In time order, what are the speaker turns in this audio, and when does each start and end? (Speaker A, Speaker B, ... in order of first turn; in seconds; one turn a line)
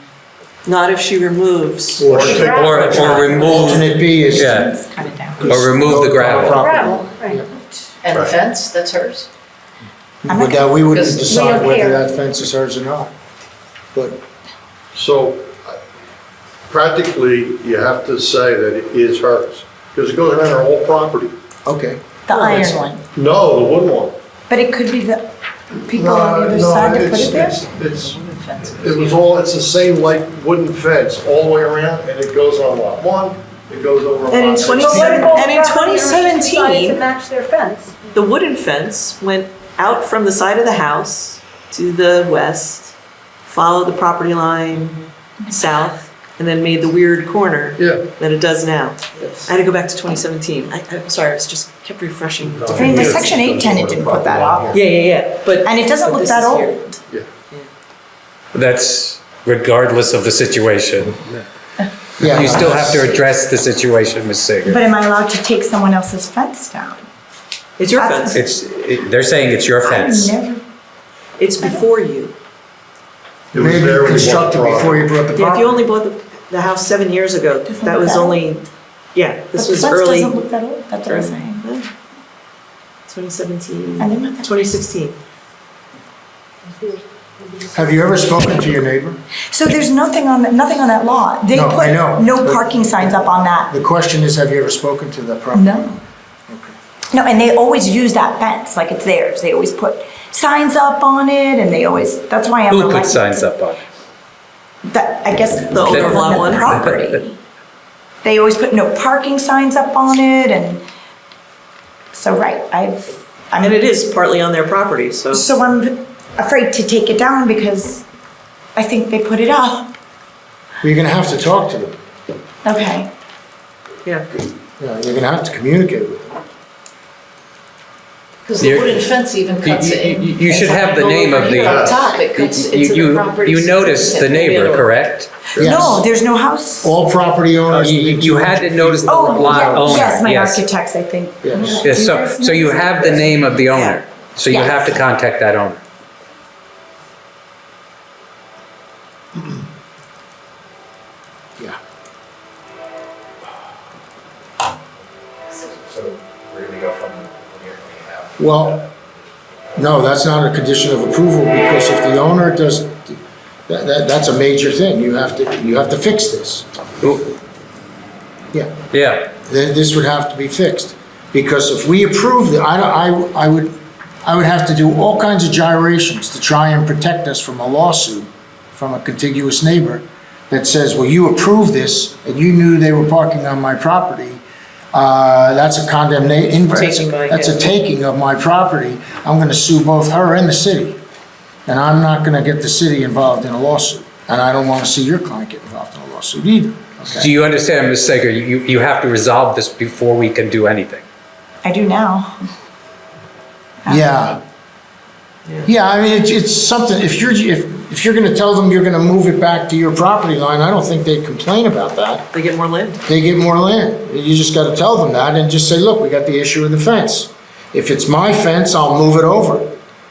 Speaker A: 0.7-2.3
Speaker B: 2.0-3.7
Speaker C: 2.0-4.6
Speaker D: 2.3-3.6
Speaker E: 2.4-4.7
Speaker F: 3.7-5.6
Speaker C: 5.4-7.5
Speaker E: 5.5-6.7
Speaker D: 6.5-7.4
Speaker G: 8.0-9.3
Speaker H: 8.5-9.0
Speaker C: 10.2-13.1
Speaker F: 10.3-10.9
Speaker G: 11.0-11.3
Speaker D: 11.3-12.0
Speaker C: 13.9-14.2
Speaker B: 14.9-15.8
Speaker B: 16.7-21.3
Speaker C: 21.6-22.0
Speaker F: 22.3-23.0
Speaker B: 22.4-24.1
Speaker F: 24.5-25.3
Speaker F: 25.9-27.6
Speaker B: 25.9-35.3
Speaker A: 34.3-37.0
Speaker D: 34.7-38.1
Speaker A: 38.1-42.9
Speaker A: 43.5-53.3
Speaker B: 47.8-48.1
Speaker B: 52.5-54.8
Speaker F: 52.7-54.8
Speaker A: 54.7-57.0
Speaker F: 55.6-57.0
Speaker E: 58.5-61.2
Speaker C: 62.2-63.2
Speaker E: 62.2-64.8
Speaker F: 64.7-67.1
Speaker A: 67.8-68.5
Speaker F: 68.0-68.5
Speaker E: 68.3-70.3
Speaker F: 69.8-70.6
Speaker A: 71.4-72.3
Speaker B: 73.5-75.1
Speaker C: 73.5-75.8
Speaker A: 75.3-80.4
Speaker F: 77.7-78.5
Speaker F: 79.5-81.7
Speaker A: 81.1-81.9
Speaker A: 83.1-85.2
Speaker F: 84.0-84.8
Speaker D: 86.7-88.6
Speaker C: 87.7-89.2
Speaker F: 89.5-93.7
Speaker C: 91.5-96.8
Speaker F: 95.5-95.9
Speaker F: 97.1-103.5
Speaker E: 102.7-103.9
Speaker F: 104.8-107.4
Speaker A: 105.7-106.7
Speaker E: 105.9-107.2
Speaker F: 108.2-110.8
Speaker F: 112.1-113.9
Speaker A: 113.6-115.4
Speaker F: 115.3-118.0
Speaker F: 118.8-119.9
Speaker C: 120.8-122.0
Speaker F: 122.6-123.1
Speaker C: 124.8-126.3
Speaker G: 128.5-134.7
Speaker E: 128.6-129.0
Speaker H: 128.7-129.9
Speaker E: 129.6-135.3
Speaker H: 131.2-131.5
Speaker B: 131.6-132.1
Speaker H: 133.3-134.3
Speaker B: 135.5-135.8
Speaker F: 135.6-137.0
Speaker C: 135.6-136.0
Speaker C: 136.8-140.2
Speaker E: 137.7-140.6
Speaker F: 139.1-143.4
Speaker C: 141.4-141.9
Speaker E: 141.8-145.8
Speaker A: 143.7-144.0
Speaker F: 144.5-145.1
Speaker H: 155.7-158.3
Speaker C: 158.4-158.9
Speaker C: 159.8-166.7
Speaker E: 168.9-169.3
Speaker C: 169.4-191.0
Speaker A: 186.7-187.7
Speaker C: 191.7-197.3
Speaker E: 197.1-201.0
Speaker F: 201.6-202.5
Speaker F: 203.8-204.2
Speaker C: 203.9-204.4
Speaker C: 205.7-212.3
Speaker A: 212.3-213.0
Speaker C: 213.1-219.7